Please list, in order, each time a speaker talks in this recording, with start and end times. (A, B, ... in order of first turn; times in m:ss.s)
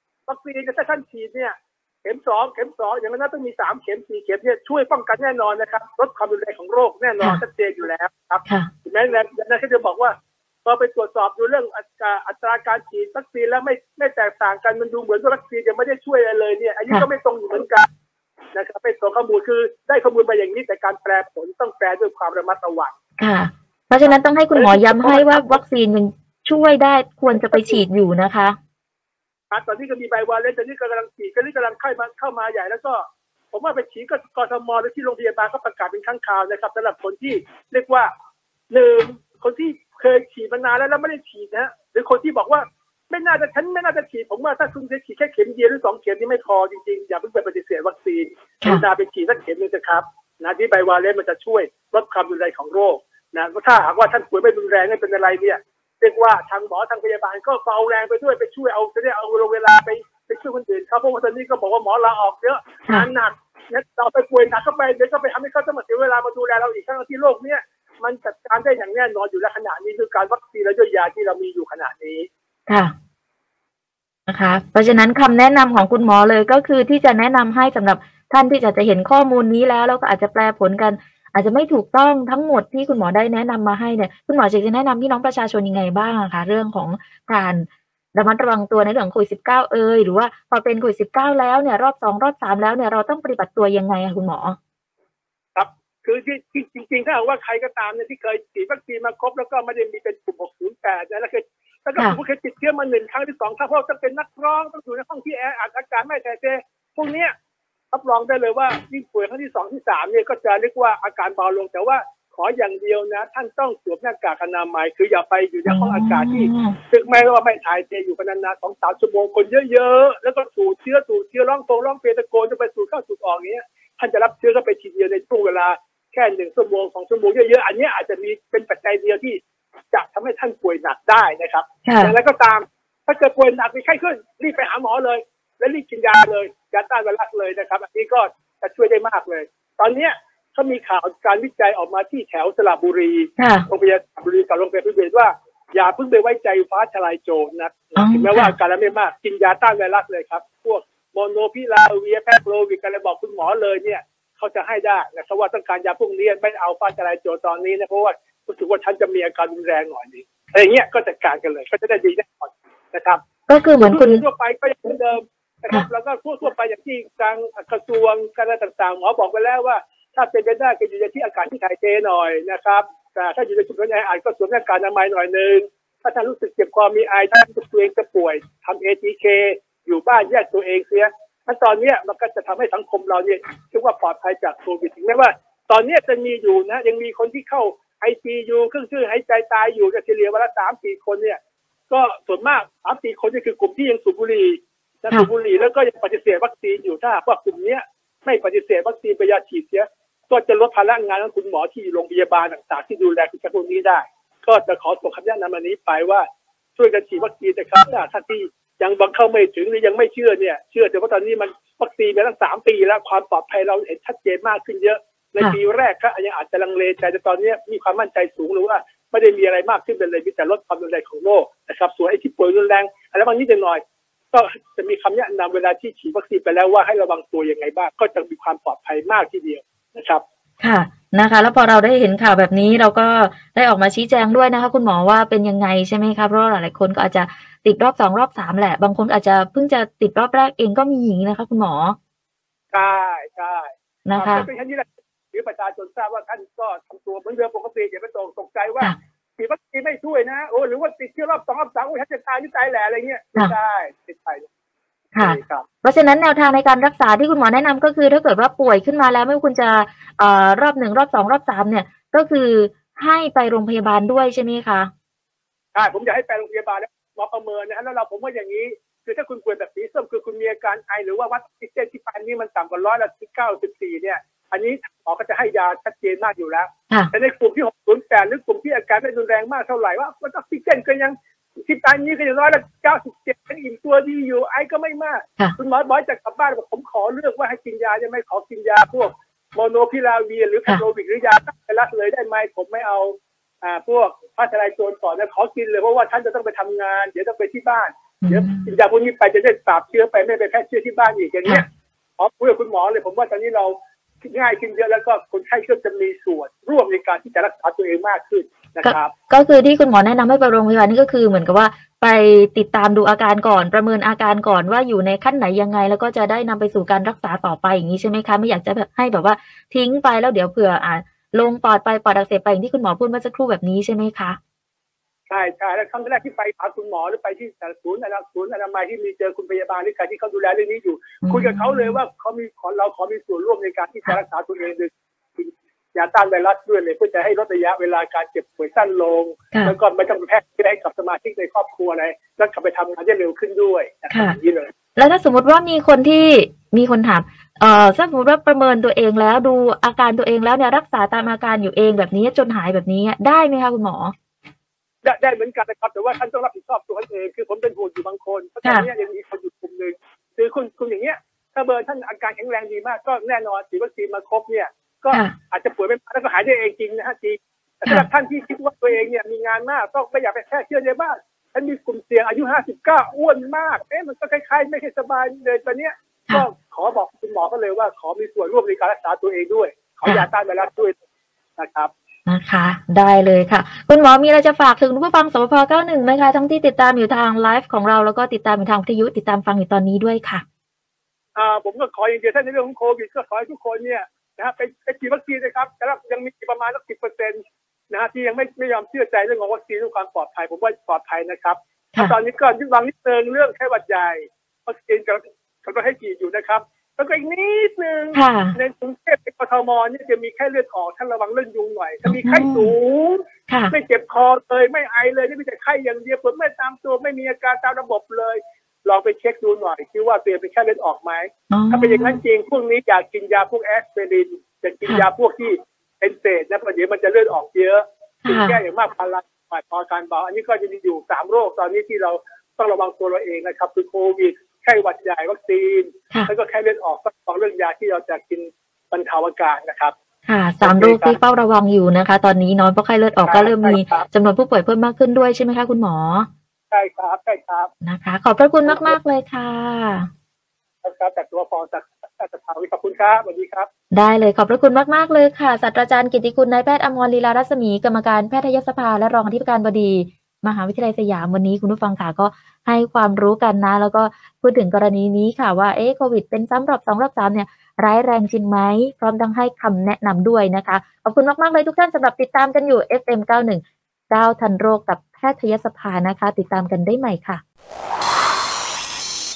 0:00.3-0:10.1 A
0:10.6-0:17.9 A
0:18.5-0:22.9 A
0:23.2-0:28.6 B
0:24.0-0:25.6 A
0:27.4-0:27.8 A
0:29.5-0:38.1 A
0:38.7-1:12.3 A
1:12.7-1:12.9 B
1:14.3-1:34.6 B
1:35.6-1:47.3 A
1:47.9-2:09.4 A
1:55.7-1:56.8 B
2:09.9-2:43.2 A
2:11.8-2:12.2 B
2:23.4-2:23.7 B
2:28.0-2:28.5 B
2:43.5-2:44.2 B
2:43.8-3:11.4 A
3:11.9-3:26.3 A
3:26.8-3:50.2 A
3:50.6-4:02.0 B
4:02.7-4:14.5 A
4:04.1-4:04.5 B
4:15.1-4:24.9 B
4:15.2-4:15.7 A
4:25.7-5:01.7 A
4:58.2-4:58.7 B
5:02.2-5:09.1 A
5:08.8-5:24.4 B
5:25.3-5:44.7 A
5:31.2-5:32.0 B
5:44.1-5:44.4 B
5:45.0-5:54.1 B
5:55.0-6:21.0 A
6:21.6-6:21.9 A
6:22.3-6:30.4 B
6:31.4-7:19.9 A
6:48.1-6:48.6 B
6:52.0-6:52.8 B
6:53.5-6:53.8 B
7:01.5-7:02.2 B
7:08.2-7:08.6 B
7:20.3-7:26.3 B
7:20.6-7:21.2 A
7:23.3-7:24.1 A
7:26.7-7:27.7 A
7:27.8-7:30.1 B
7:28.7-7:29.0 A
7:30.8-7:33.7 A
7:33.9-7:57.4 B